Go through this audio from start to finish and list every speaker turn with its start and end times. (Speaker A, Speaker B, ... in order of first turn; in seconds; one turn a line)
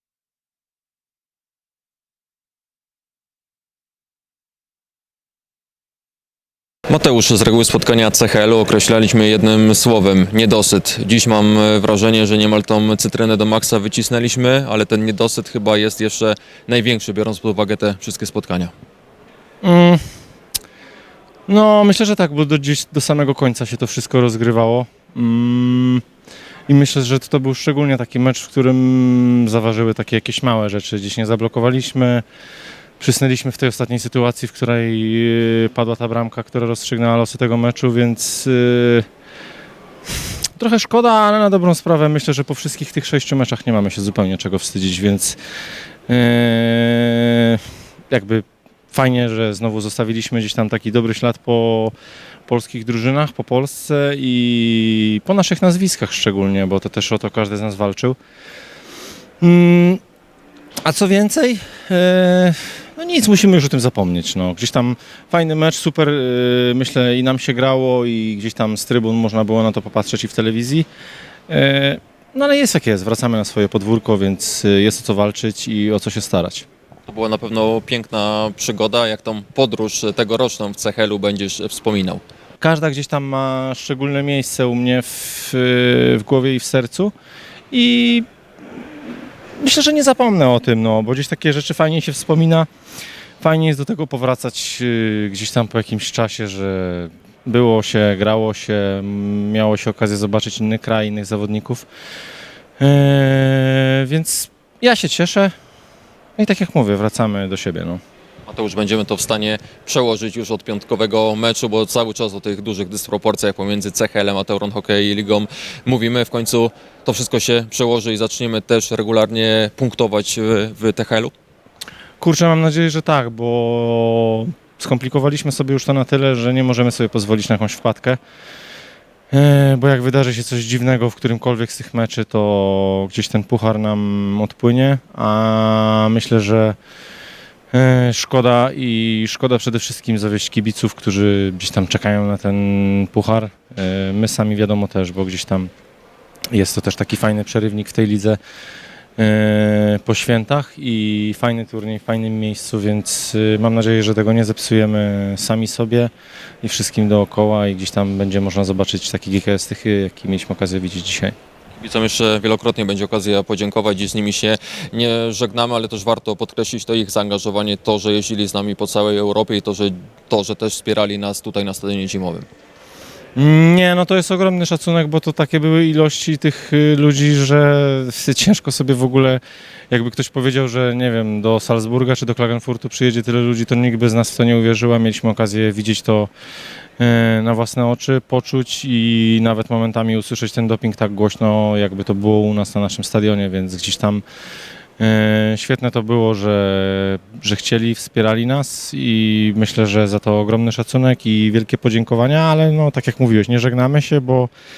Speaker A: 6.9-18.7
Speaker B: 19.6-20.0
Speaker B: 21.5-26.0
Speaker B: 26.7-32.2
Speaker B: 33.0-39.0
Speaker B: 40.6-45.4
Speaker B: 46.1-51.9
Speaker B: 52.5-58.2
Speaker B: 59.4-60.0
Speaker B: 60.8-70.9
Speaker B: 71.5-76.7
Speaker A: 77.1-82.2
Speaker B: 82.6-87.1
Speaker B: 87.7-88.2
Speaker B: 89.6-92.7
Speaker B: 93.4-101.9
Speaker B: 102.8-105.5
Speaker B: 106.4-108.0
Speaker A: 108.5-121.3
Speaker B: 122.2-128.2
Speaker B: 129.3-136.8
Speaker B: 137.7-145.7
Speaker B: 146.5-148.4
Speaker B: 149.2-156.1
Speaker B: 156.6-161.3
Speaker A: 161.8-172.4
Speaker B: 173.3-186.3
Speaker B: 187.0-194.2
Speaker B: 195.0-204.5